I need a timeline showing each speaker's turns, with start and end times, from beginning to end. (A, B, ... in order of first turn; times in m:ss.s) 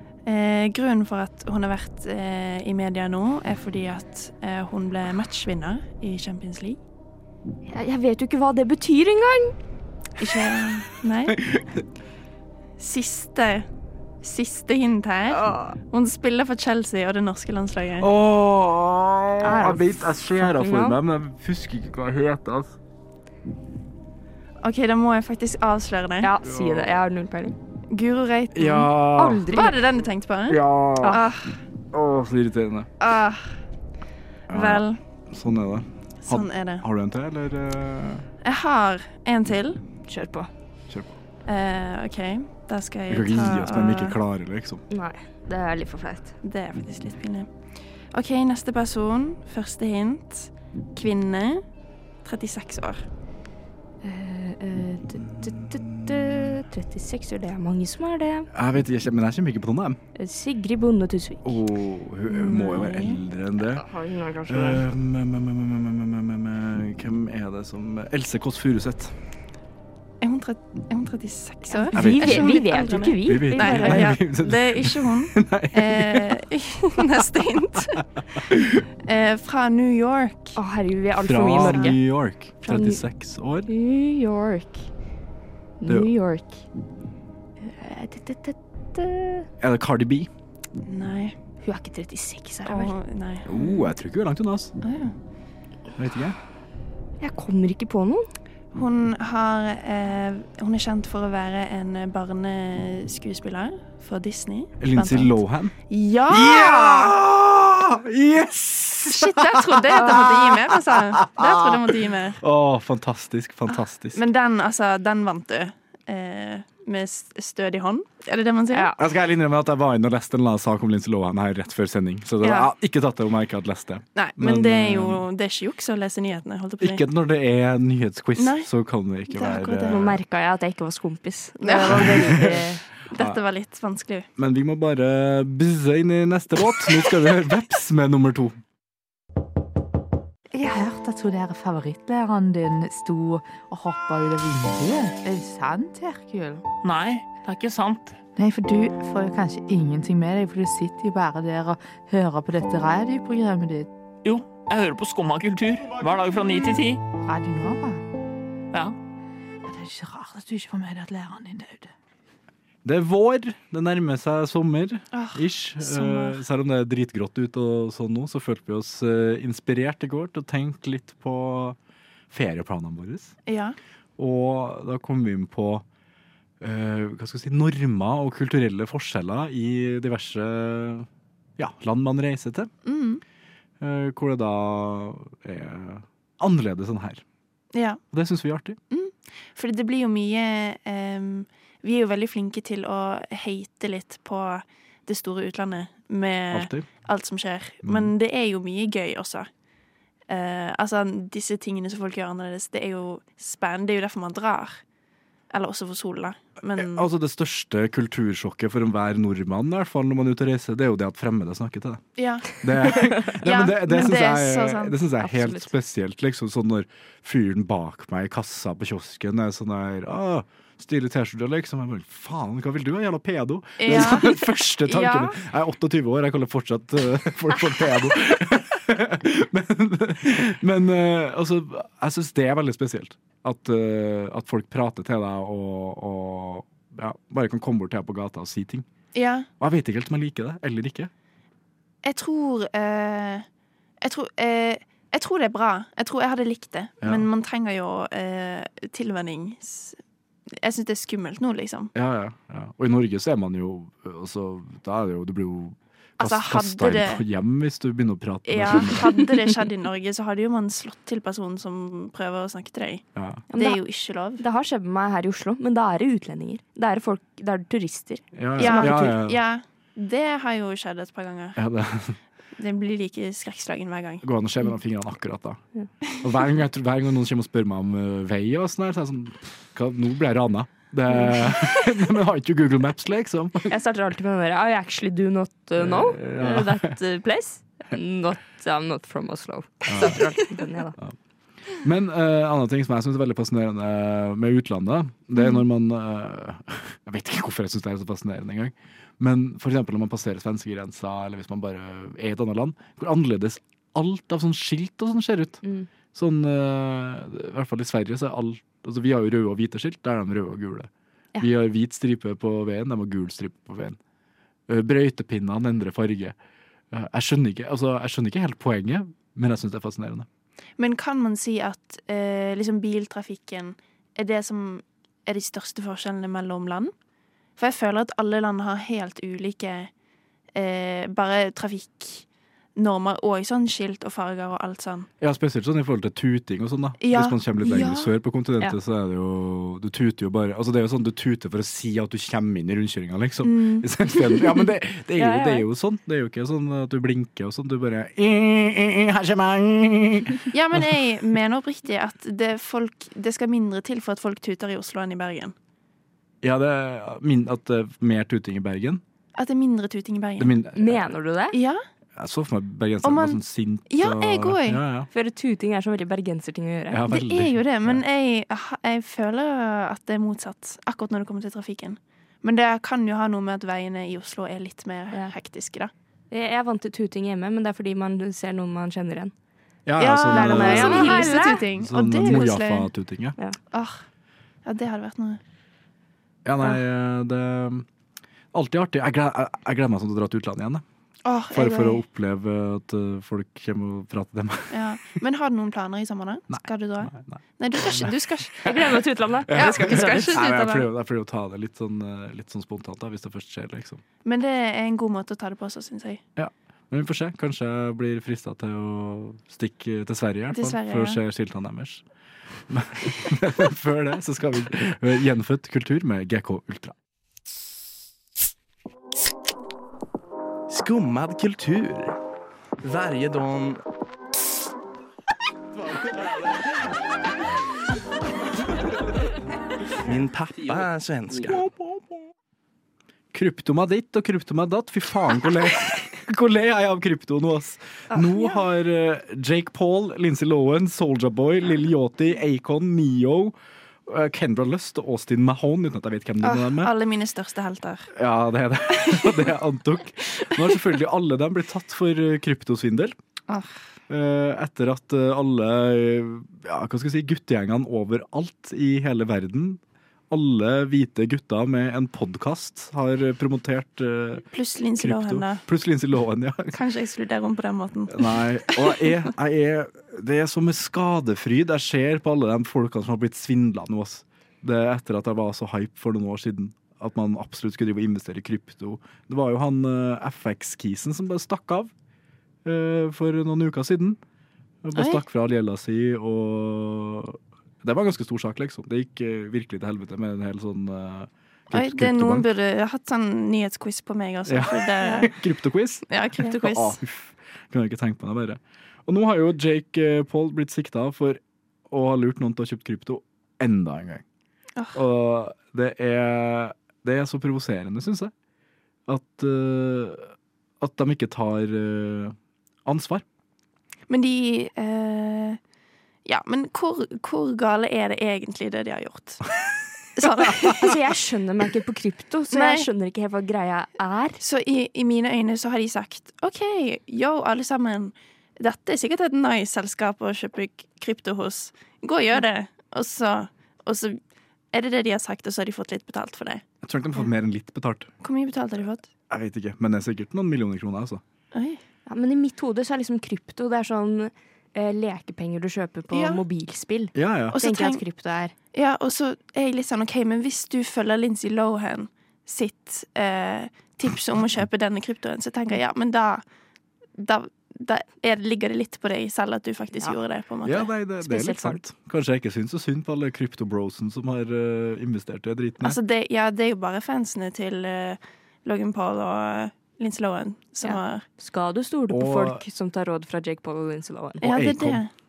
0:00.2-0:06.8 A
0:07.7-0:09.5 B
0:10.2-0:11.4 A
0:11.3-0:11.8 C
0:12.8-0:13.7 A
0:14.2-0:18.1 A
0:15.3-0:15.7 B
0:18.0-0:22.8 C
0:19.4-0:21.0 B
0:24.6-0:26.3 A
0:26.2-0:27.5 B
0:26.4-0:27.0 C
0:27.9-0:28.9 A
0:28.5-0:29.5 C
0:29.2-0:29.8 B
0:29.5-0:31.6 A
0:30.5-0:31.2 C
0:31.9-0:32.9 C
0:33.0-0:33.5 A
0:34.5-0:38.3 C
0:34.5-0:35.0 A
0:36.2-0:36.8 A
0:38.4-0:39.8 A
0:40.1-0:40.5 B
0:40.9-0:41.1 C
0:41.4-0:44.2 A
0:43.1-0:44.8 C
0:44.9-0:46.3 B
0:46.4-0:47.5 A
0:48.1-0:51.6 A
0:52.2-0:53.0 A
0:54.0-0:58.5 B
0:55.2-0:56.6 C
0:58.5-1:00.0 C
1:00.2-1:01.6 B
1:01.4-1:03.8 C
1:02.3-1:03.2 A
1:03.6-1:04.8 B
1:04.5-1:09.2 C
1:10.2-1:18.4 A
1:11.7-1:14.1 B
1:11.9-1:12.6 C
1:13.1-1:16.4 C
1:18.4-1:18.8 C
1:19.0-1:20.6 A
1:20.6-1:22.0 B
1:21.2-1:23.7 C
1:21.6-1:21.9 A
1:22.6-1:23.0 B
1:23.7-1:24.9 B
1:25.8-1:26.6 B
1:25.8-1:26.1 C
1:27.6-1:29.5 B
1:29.6-1:30.3 C
1:30.8-1:31.4 A
1:31.6-1:32.9 B
1:32.6-1:33.6 A
1:33.4-1:34.7 C
1:34.8-1:35.1 A
1:36.0-1:36.4 C
1:37.2-1:38.3 B
1:38.7-1:47.2 A
1:44.8-1:45.7 C
1:46.3-1:54.2 C
1:49.0-1:52.4 A
1:53.7-1:58.9 A
1:59.0-2:05.2 C
2:02.4-2:02.7 A
2:04.1-2:07.0 A
2:06.8-2:10.2 C
2:08.4-2:08.7 A
2:09.3-2:10.0 A
2:09.9-2:12.8 B
2:11.6-2:14.3 A
2:11.8-2:13.4 C
2:14.4-2:18.6 C
2:20.5-2:26.6 D
2:26.8-2:28.2 E
2:28.4-2:33.9 D
2:34.2-2:37.0 E
2:37.2-2:38.0 D
2:39.6-2:41.9 D
2:42.8-2:51.8 C
2:45.1-2:46.4 A
2:52.3-2:53.4 C
2:53.4-2:53.8 A
2:54.2-2:55.8 C
2:56.6-3:02.7 C
3:02.8-3:03.2 A
3:03.8-3:07.2 C
3:07.7-3:08.0 A
3:08.1-3:08.8 C
3:08.9-3:19.5 A
3:16.5-3:16.9 C
3:17.8-3:18.1 C
3:20.3-3:24.8 A
3:25.5-3:27.1 A
3:26.8-3:32.0 C
3:32.2-3:35.0 A
3:32.6-3:58.9 C
3:35.2-3:35.7 B
3:43.8-3:45.3 A
3:59.1-3:59.5 A
3:59.6-4:01.1 C
4:02.0-4:03.4 A
4:04.0-4:10.0 A
4:07.0-4:07.3 C
4:10.5-4:11.9 A
4:11.9-4:19.1 C
4:16.2-4:17.2 A
4:18.4-4:24.4 A
4:23.2-4:23.4 C
4:23.5-4:23.8 B
4:24.4-4:29.1 B
4:28.3-4:29.4 C
4:28.6-4:31.6 A
4:31.6-4:32.2 C
4:32.6-4:34.2 A
4:34.2-4:35.6 C
4:36.2-4:43.7 C
4:43.7-4:51.0 B
4:45.8-4:47.0 C
4:49.9-4:50.2 C
4:51.7-5:14.0 C
5:14.7-5:16.4 C
5:16.9-5:20.3 C
5:20.8-5:26.9 A
5:27.6-5:29.9 A
5:30.5-5:35.1 A
5:35.2-5:51.0 C
5:37.0-5:38.1 A
5:43.4-5:43.9 A
5:45.2-5:45.6 B
5:50.5-5:55.5 A
5:56.4-5:59.0 C
5:59.4-6:00.5 A
6:00.4-6:01.1 C
6:00.7-6:01.6 B
6:01.5-6:01.8 A
6:02.2-6:05.1 C
6:03.0-6:04.8 A
6:05.1-6:07.0 B
6:06.9-6:08.0 C
6:07.1-6:15.9 A
6:16.3-6:19.3 B
6:19.8-6:23.4 C
6:20.0-6:22.9 A
6:20.2-6:21.6 B
6:23.7-6:24.0 A
6:24.6-6:25.4 A
6:26.4-6:27.9 C
6:28.5-6:30.8 C
6:31.2-6:32.0 A
6:31.5-6:34.8 C
6:34.7-6:38.9 A
6:36.5-6:38.2 C
6:38.6-6:40.8 B
6:39.4-6:44.0 C
6:39.5-6:40.8 A
6:44.2-6:46.2 A
6:46.4-6:52.0 C
6:50.5-6:51.2 A
6:52.7-6:56.9 C
7:00.7-7:02.2 F
7:02.8-7:03.8 F
7:10.0-7:11.6 F
7:13.3-7:23.6 C
7:18.1-7:18.6 A
7:24.1-7:26.9 C
7:26.4-7:28.1 A
7:28.1-7:33.1 C
7:29.0-7:29.4 A
7:34.1-7:46.8 C
7:44.5-7:45.6 A
7:46.7-7:49.1 A
7:48.1-8:01.9 C
8:02.6-8:04.2 C
8:04.8-8:12.5 C
8:04.9-8:05.2 A
8:11.7-8:15.4 A
8:14.4-8:24.2 C
8:16.1-8:17.0 A
8:24.9-8:28.3 C
8:29.1-8:33.2 C
8:34.1-8:35.6 A
8:36.2-8:39.5 A
8:40.2-8:41.0 A
8:40.6-8:44.4 B
8:42.5-8:42.9 A
8:44.4-8:54.2 A
8:54.7-8:56.6 A
8:56.8-8:58.1 C
8:58.2-8:59.1 A
8:59.3-9:01.2 C
9:01.5-9:01.8 A
9:02.1-9:08.5 B
9:06.1-9:06.4 A
9:07.1-9:07.6 C
9:07.5-9:08.0 A
9:08.7-9:16.4 A
9:17.2-9:21.8 A
9:20.6-9:26.0 C
9:21.3-9:21.5 B
9:25.8-9:31.2 A
9:30.8-9:34.4 B
9:32.1-9:32.6 C
9:34.4-9:35.0 C
9:34.4-9:35.1 A